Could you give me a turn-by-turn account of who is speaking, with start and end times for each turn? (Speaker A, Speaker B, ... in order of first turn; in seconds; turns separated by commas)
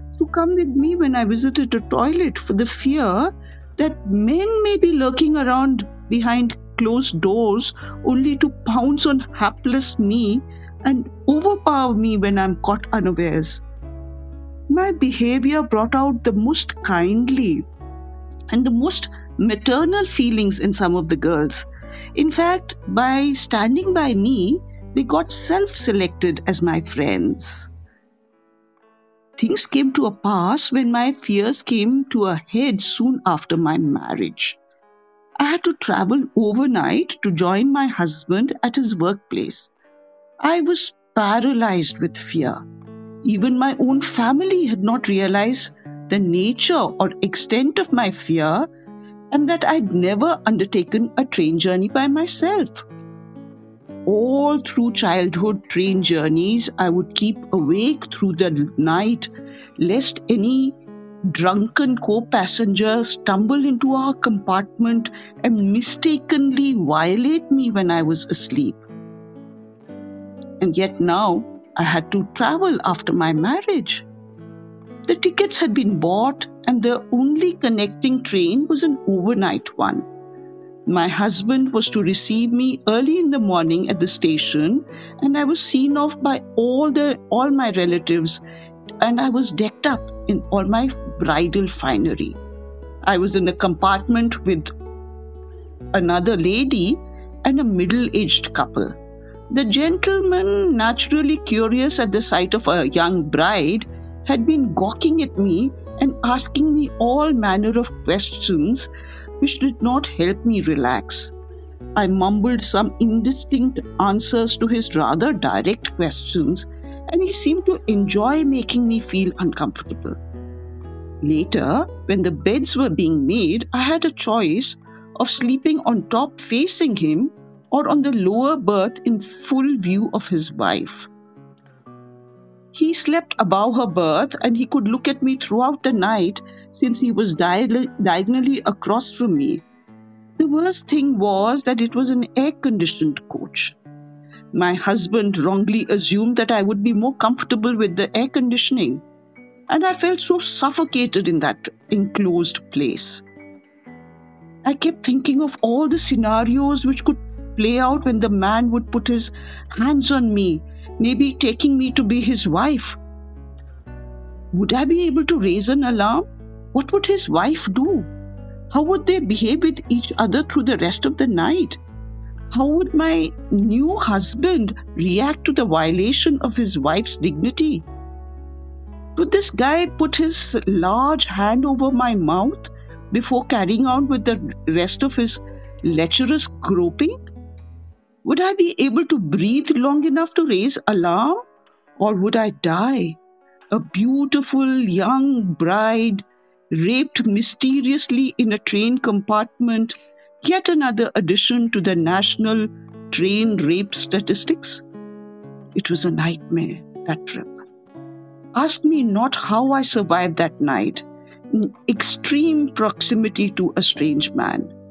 Speaker A: 0.2-13.6, Speaker A: 14.7-17.7, Speaker A: 18.5-27.7, Speaker A: 29.4-34.6, Speaker A: 35.4-39.7, Speaker A: 40.4-42.6, Speaker A: 43.2-48.7, Speaker A: 49.3-52.8, Speaker A: 54.1-60.8, Speaker A: 61.3-68.8, Speaker A: 70.6-74.1, Speaker A: 75.0-80.1, Speaker A: 80.9-88.4, Speaker A: 89.0-92.4, Speaker A: 93.0-94.7, Speaker A: 95.9-99.0, Speaker A: 99.5-108.9, Speaker A: 109.4-111.3, Speaker A: 112.0-120.2, Speaker A: 121.2-131.1, Speaker A: 132.7-139.6, Speaker A: 140.4-143.8, Speaker A: 144.5-149.0, Speaker A: 149.7-153.2, Speaker A: 154.6-163.0, Speaker A: 164.5-168.1, Speaker A: 168.7-171.8, Speaker A: 172.5-177.9, Speaker A: 179.2-187.1, Speaker A: 188.2-191.4, Speaker A: 192.0-193.2, Speaker A: 193.7-204.8, Speaker A: 205.7-207.6, Speaker A: 208.6-214.7